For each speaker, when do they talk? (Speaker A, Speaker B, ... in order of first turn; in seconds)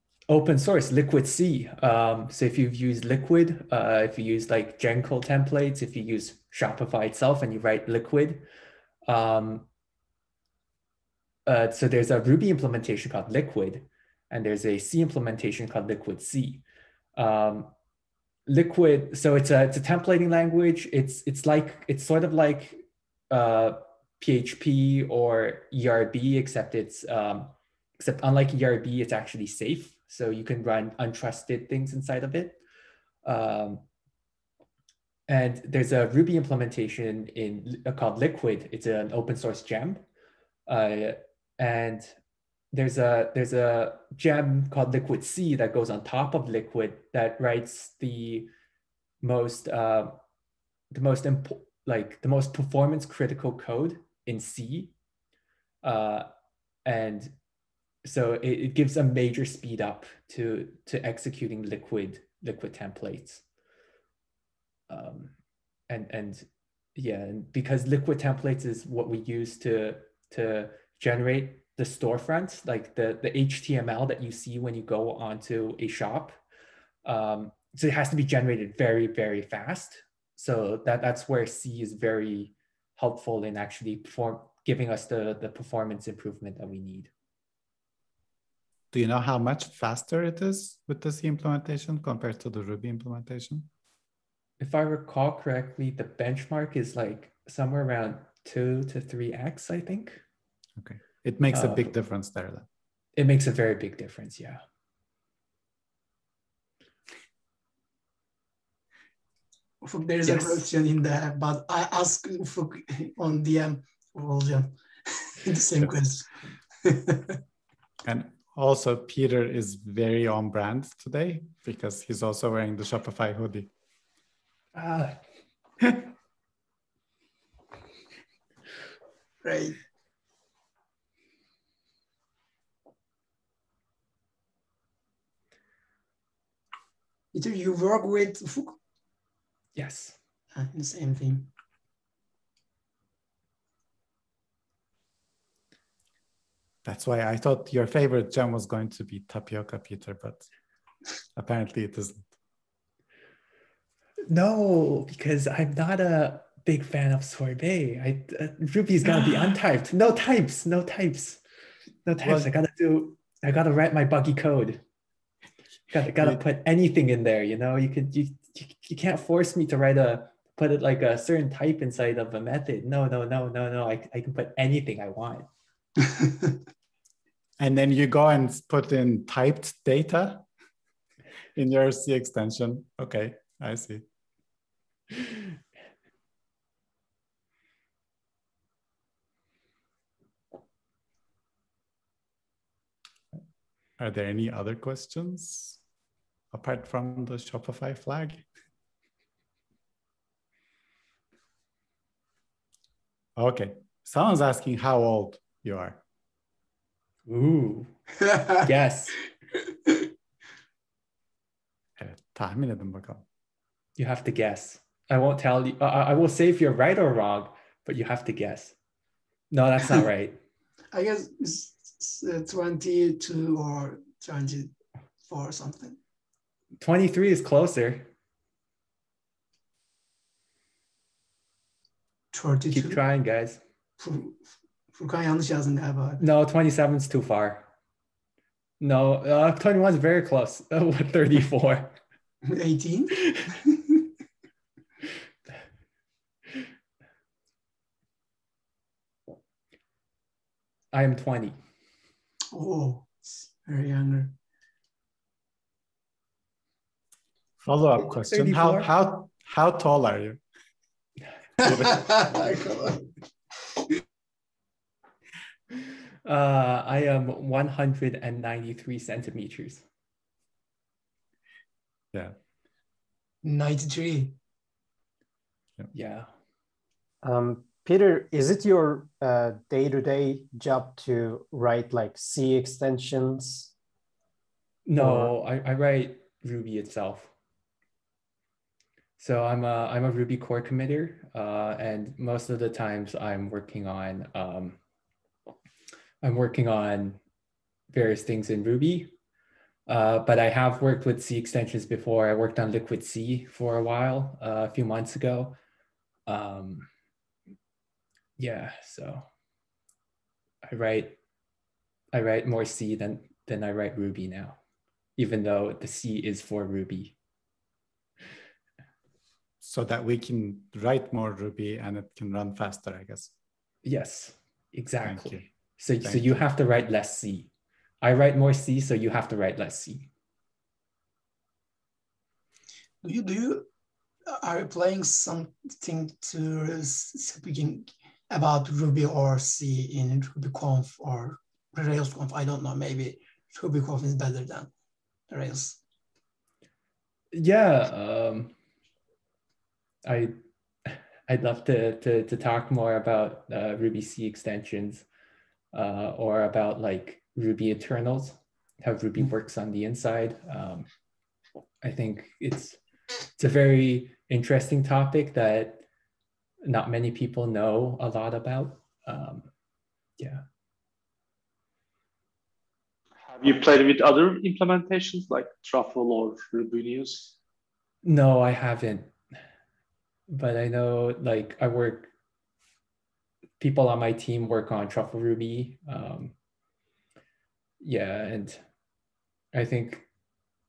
Speaker A: 0.3-8.4, 9.1-9.7, 11.4-16.6, 17.1-17.7, 18.5-32.6, 33.2-33.8, 35.3-40.0, 40.7-42.1, 42.7-48.5, 49.2-50.2, 50.9-54.9, 55.8-56.3, 56.8-57.3, 58.0-63.4, 64.9-65.3, 65.9-76.4, 77.0-87.1, 94.6-100.2, 101.5-101.9, 103.2-104.6, 110.2-110.6, 124.7-125.2, 139.8-140.2, 154.3-161.4, 162.0-164.8, 165.9-175.5, 207.2-207.9, 208.5-209.2, 214.0-218.7, 219.5-220.4, 226.8-228.1, 232.7-233.6, 236.2-237.7, 238.8-241.9, 250.9-251.6, 258.0-258.9, 266.2-269.8, 275.9-276.3, 284.9-287.3, 289.2-294.8, 296.2-297.2, 297.9-299.1, 299.9-305.6, 306.3-306.9, 308.4-309.2, 310.6-311.1, 312.1-314.6, 315.2-317.1, 323.8-327.5, 328.0-330.1, 347.3-348.5, 350.0-355.1, 355.7-360.9, 361.8-362.8, 363.4-365.8, 366.6-369.5, 370.2-370.4, 378.0-379.1, 380.3-382.1, 383.6-386.3, 387.8-388.6, 389.5-390.1
Speaker B: 88.9-93.7, 100.8-102.7, 118.0-123.7, 146.8-150.5, 151.3-152.3, 162.2-162.5, 177.6-180.5, 181.5-184.0, 194.0-195.8, 196.5-198.4, 203.3-206.0, 212.0-213.2, 257.6-260.4, 261.6-262.5, 319.6-323.3, 325.0-325.5, 326.0-326.4
Speaker C: 109.8-117.4, 129.4-129.8, 137.3-138.8, 140.5-141.5, 176.1-176.5, 220.9-226.0, 232.3-233.0, 234.0-236.2, 242.5-243.9, 252.5-254.3, 261.6-263.1, 273.4-274.4, 333.0-333.7, 334.3-344.7, 345.3-345.8
Speaker D: 277.2-283.7, 285.0-285.3
Speaker E: 373.2-377.4